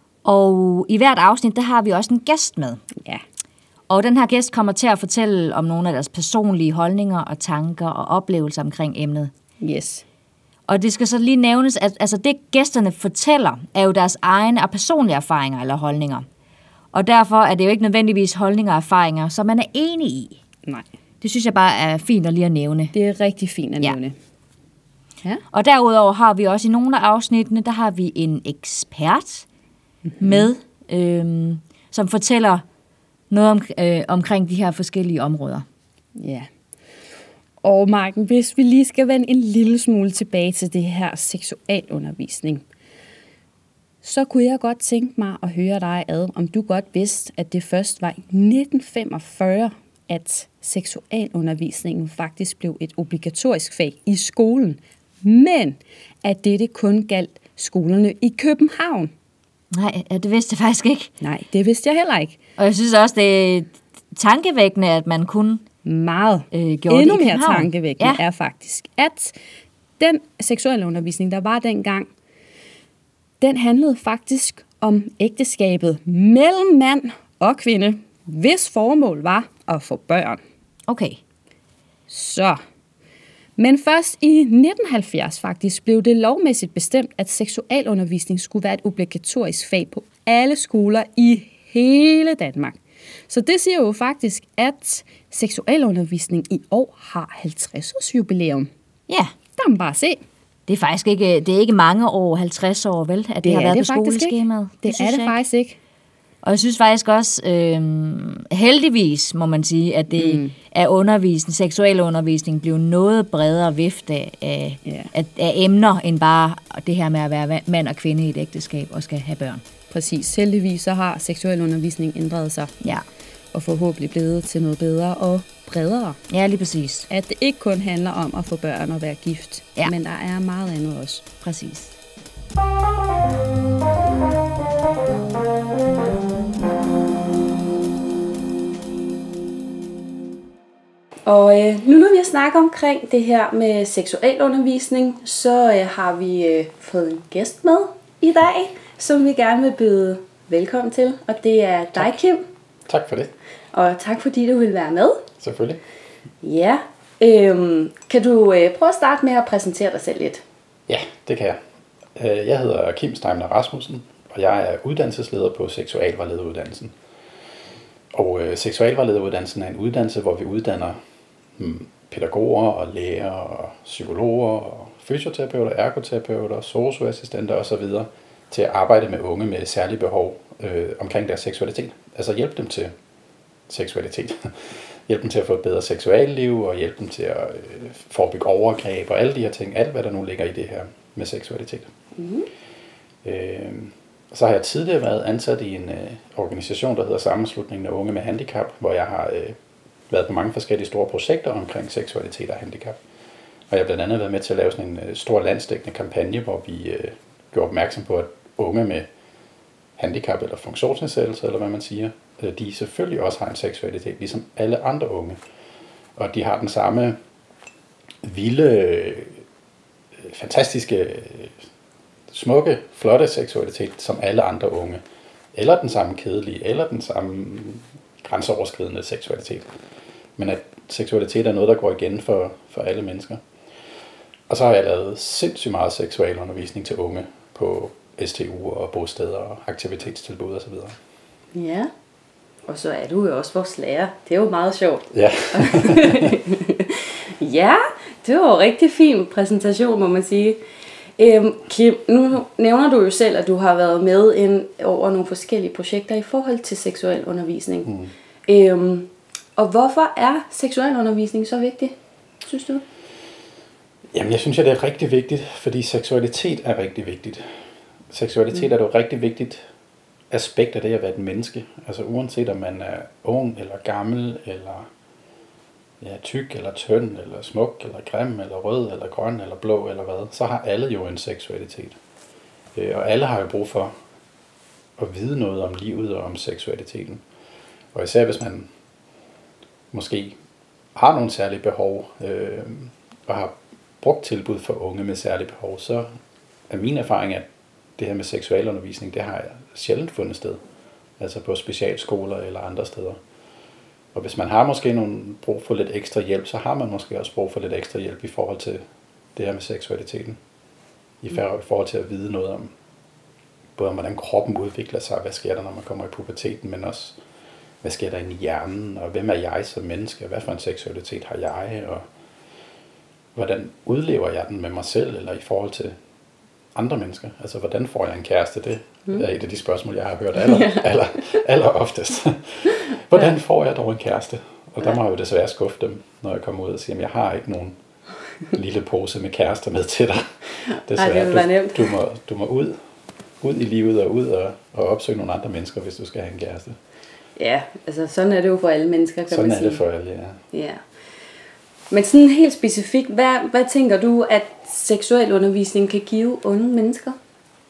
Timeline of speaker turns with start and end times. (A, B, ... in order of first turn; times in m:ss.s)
0:00.2-0:02.8 A
0:03.9-0:09.3 A
0:09.6-0:10.0 B
0:10.7-0:16.2 A
0:16.9-0:20.4 A
0:21.2-0:22.9 A
0:22.9-0:24.1 B
0:25.5-0:29.4 A
0:30.1-0:30.5 B
0:30.2-0:32.6 A
0:33.3-0:35.6 A
0:36.2-0:36.5 B
0:37.6-0:42.6 B
0:44.0-0:59.1 B
0:59.7-1:01.1 A
1:01.2-1:02.4 B
1:02.6-1:05.6 A
1:05.8-1:09.4 B
1:06.5-1:08.2 A
1:10.0-1:12.1 B
1:13.4-1:20.4 B
1:20.9-1:21.2 A
1:22.1-1:22.6 B
1:23.6-1:38.7 B
1:39.6-1:40.2 B
1:40.7-1:45.3 A
1:43.4-1:45.8 B
1:46.4-1:59.6 A
1:50.2-1:50.5 B
1:59.9-2:02.7 B
2:03.5-2:06.2 B
2:06.3-2:07.1 A
2:07.1-2:11.3 B
2:11.4-2:11.9 A
2:21.2-2:32.4 B
2:32.9-2:33.3 C
2:33.7-2:35.2 B
2:35.4-2:35.8 C
2:36.4-2:40.4 B
2:40.9-2:41.6 C
2:42.1-2:46.9 C
2:48.1-2:51.0 C
2:51.6-3:02.9 C
3:03.7-3:11.9 C
3:12.2-3:12.5 B
3:13.2-3:19.6 C
3:20.1-3:23.0 C
3:23.7-3:29.1 C
3:30.0-3:35.4 C
3:36.2-3:37.2 C
3:38.2-3:39.4 C
3:40.2-3:41.6 C
3:42.3-3:45.0 C
3:45.5-3:49.7 C
3:50.4-3:53.4 C
3:54.5-4:01.0 C
4:01.5-4:01.9 B
4:02.7-4:10.6 B
4:05.1-4:06.3 C
4:11.2-4:17.9 B
4:18.4-4:22.8 B
4:24.1-4:27.6 C
4:28.1-4:29.6 C
4:30.3-4:34.9 C
4:36.0-4:42.0 C
4:42.7-4:43.9 C
4:45.0-4:47.2 C
4:47.9-4:48.7 C
4:49.9-4:50.4 C
4:50.9-4:56.1 C
4:56.7-5:00.6 C
5:01.2-5:03.2 C
5:04.1-5:08.8 C
5:09.3-5:10.4 C
5:11.2-5:12.7 C
5:13.8-5:17.2 C
5:17.8-5:22.1 C
5:23.3-5:26.0 C
5:26.7-5:37.8 C
5:30.4-5:30.8 B
5:38.5-5:42.8 C
5:40.6-5:41.9 B
5:43.4-5:46.8 C
5:47.4-5:49.8 B
5:49.3-5:50.4 C
5:50.5-5:50.8 B
5:51.9-5:57.2 B